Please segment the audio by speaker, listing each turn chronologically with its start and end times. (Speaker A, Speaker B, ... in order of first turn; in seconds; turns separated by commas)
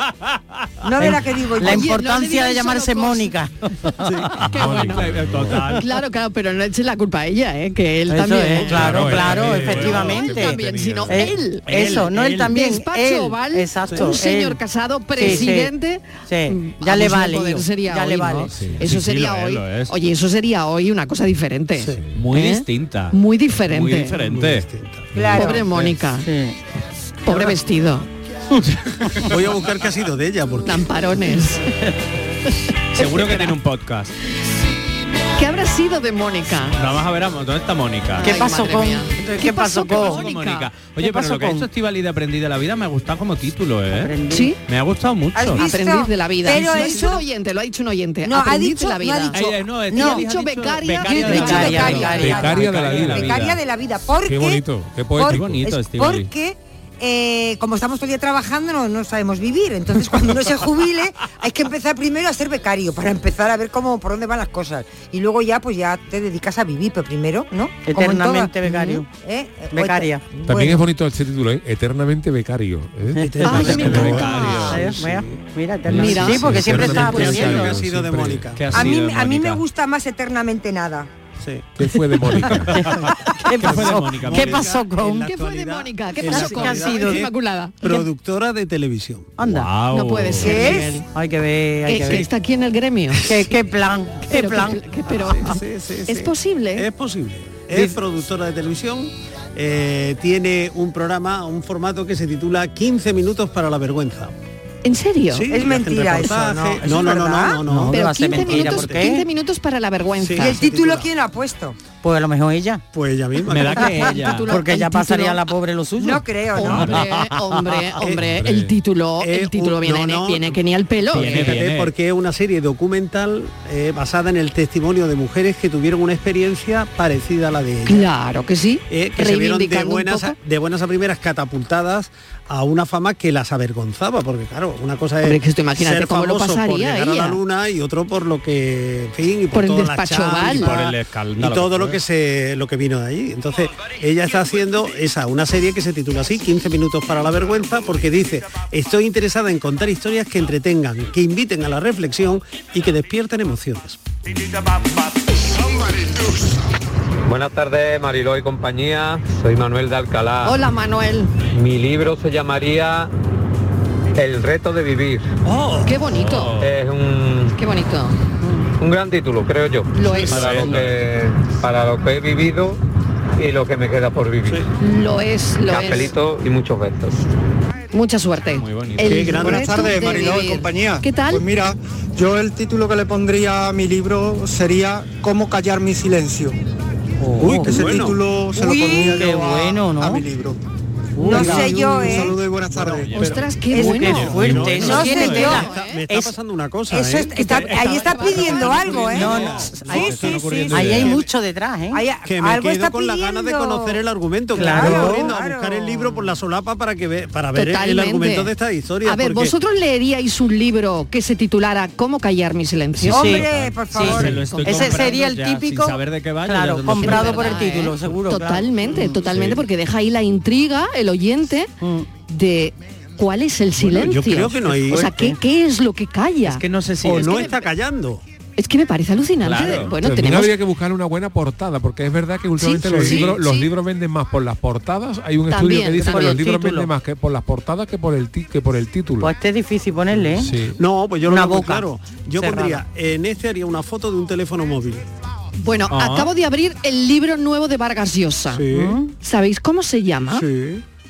Speaker A: 0.8-1.9, Speaker B: 1.0-4.2, Speaker C: 1.6-3.3, Speaker C: 4.4-5.0, Speaker D: 4.4-5.6, Speaker E: 4.6-5.9, Speaker C: 5.7-9.1, Speaker B: 8.1-10.6, Speaker E: 8.6-10.6, Speaker D: 9.0-11.3, Speaker C: 9.7-24.1, Speaker B: 11.1-14.6, Speaker E: 11.7-12.4, Speaker B: 15.2-15.7, Speaker B: 16.3-18.6, Speaker E: 18.5-19.9, Speaker E: 22.1-24.7, Speaker F: 24.2-25.6, Speaker A: 25.1-25.7, Speaker C: 25.3-26.3, Speaker B: 26.2-26.6, Speaker C: 27.2-28.1, Speaker F: 29.2-31.2, Speaker C: 30.6-31.6, Speaker C: 33.0-33.5, Speaker E: 33.0-34.1, Speaker C: 35.4-36.8, Speaker E: 36.8-38.5, Speaker B: 38.2-40.2, Speaker C: 38.2-40.7, Speaker E: 39.8-44.1, Speaker B: 41.0-41.7, Speaker B: 43.9-44.5, Speaker C: 44.3-44.6, Speaker E: 44.7-45.7, Speaker A: 45.4-47.2, Speaker C: 45.5-52.2, Speaker A: 48.2-50.2, Speaker E: 49.3-53.6, Speaker B: 51.1-52.6, Speaker A: 51.1-54.6, Speaker D: 52.2-53.5, Speaker D: 54.2-55.7, Speaker A: 55.1-68.5, Speaker E: 55.2-56.3, Speaker B: 67.8-69.1, Speaker C: 68.7-69.0, Speaker A: 69.1-70.9, Speaker B: 69.7-70.2, Speaker D: 70.5-74.5, Speaker B: 73.2-73.5, Speaker F: 73.2-75.4, Speaker C: 73.4-74.8, Speaker E: 73.5-75.0, Speaker B: 74.7-77.8, Speaker D: 75.9-78.5, Speaker C: 75.9-77.6, Speaker F: 76.1-78.9, Speaker E: 78.5-79.6, Speaker A: 78.7-81.1, Speaker F: 81.4-81.7, Speaker D: 81.8-82.9, Speaker F: 82.3-82.6, Speaker B: 82.7-85.3, Speaker F: 83.6-89.3, Speaker E: 83.6-84.7, Speaker C: 85.2-87.9, Speaker B: 86.2-87.2, Speaker B: 89.4-89.7, Speaker E: 89.4-90.8, Speaker C: 89.9-91.1, Speaker A: 90.4-91.0, Speaker B: 90.5-92.3, Speaker C: 91.9-93.3, Speaker B: 93.3-94.8, Speaker C: 94.3-96.9, Speaker F: 95.1-104.3, Speaker B: 97.7-98.0, Speaker C: 104.8-105.6, Speaker F: 105.3-109.1, Speaker A: 105.5-107.6, Speaker B: 107.7-109.2, Speaker C: 107.9-110.6, Speaker F: 110.2-111.1, Speaker A: 110.4-111.9, Speaker B: 111.9-112.8, Speaker F: 112.9-114.2, Speaker E: 113.5-114.6, Speaker B: 113.7-117.8, Speaker C: 113.8-115.4, Speaker A: 116.0-116.8, Speaker C: 116.5-121.6, Speaker F: 118.0-118.2, Speaker F: 119.2-128.1, Speaker E: 121.1-121.9, Speaker C: 127.9-130.4, Speaker F: 128.9-154.0, Speaker C: 135.2-137.4, Speaker C: 139.5-140.7, Speaker E: 140.4-142.0, Speaker G: 157.3-160.6, Speaker C: 160.4-161.3, Speaker G: 161.5-163.1, Speaker G: 164.2-165.3, Speaker F: 165.5-165.9, Speaker C: 165.8-166.6, Speaker E: 166.1-166.7, Speaker G: 166.6-167.6, Speaker C: 167.5-168.2, Speaker G: 168.8-172.8, Speaker C: 169.9-170.5, Speaker F: 170.1-170.8, Speaker E: 170.3-171.0, Speaker G: 173.4-174.6, Speaker C: 174.8-176.1, Speaker G: 175.7-177.2, Speaker C: 177.9-181.4, Speaker E: 178.6-179.7, Speaker F: 179.0-179.9, Speaker H: 179.4-186.6, Speaker B: 187.2-187.8, Speaker F: 187.4-188.3, Speaker H: 187.4-190.6, Speaker B: 188.6-190.2, Speaker B: 191.2-191.8, Speaker H: 191.2-193.1, Speaker A: 191.2-192.4, Speaker F: 191.2-201.3, Speaker E: 192.7-193.5, Speaker C: 193.2-196.0, Speaker A: 193.7-194.1, Speaker B: 193.8-196.4, Speaker E: 194.2-195.1, Speaker A: 194.8-195.7, Speaker A: 196.9-200.9, Speaker C: 197.3-199.2, Speaker B: 199.0-200.0, Speaker E: 199.5-201.2, Speaker B: 200.7-202.0, Speaker A: 201.9-204.0, Speaker F: 202.2-209.5, Speaker B: 204.6-205.3, Speaker A: 204.6-206.3, Speaker C: 207.5-208.5, Speaker C: 209.0-213.4, Speaker E: 213.0-218.2, Speaker A: 213.1-214.3, Speaker B: 213.1-219.2, Speaker C: 214.3-215.1, Speaker C: 217.0-221.7, Speaker E: 219.3-219.6, Speaker B: 221.8-222.1, Speaker C: 222.3-227.5, Speaker F: 223.8-225.3, Speaker E: 226.4-227.6, Speaker F: 227.0-228.2, Speaker C: 228.6-230.6, Speaker E: 229.4-229.9, Speaker D: 229.9-239.3, Speaker C: 232.6-233.7, Speaker F: 232.9-233.3, Speaker C: 235.5-236.6, Speaker B: 236.0-236.9, Speaker B: 239.2-240.5, Speaker D: 240.4-240.8, Speaker F: 240.8-245.0, Speaker B: 241.2-242.8, Speaker C: 245.6-248.7, Speaker E: 245.9-246.3, Speaker F: 248.5-249.0, Speaker B: 248.7-249.1, Speaker C: 249.2-250.5, Speaker F: 250.3-250.8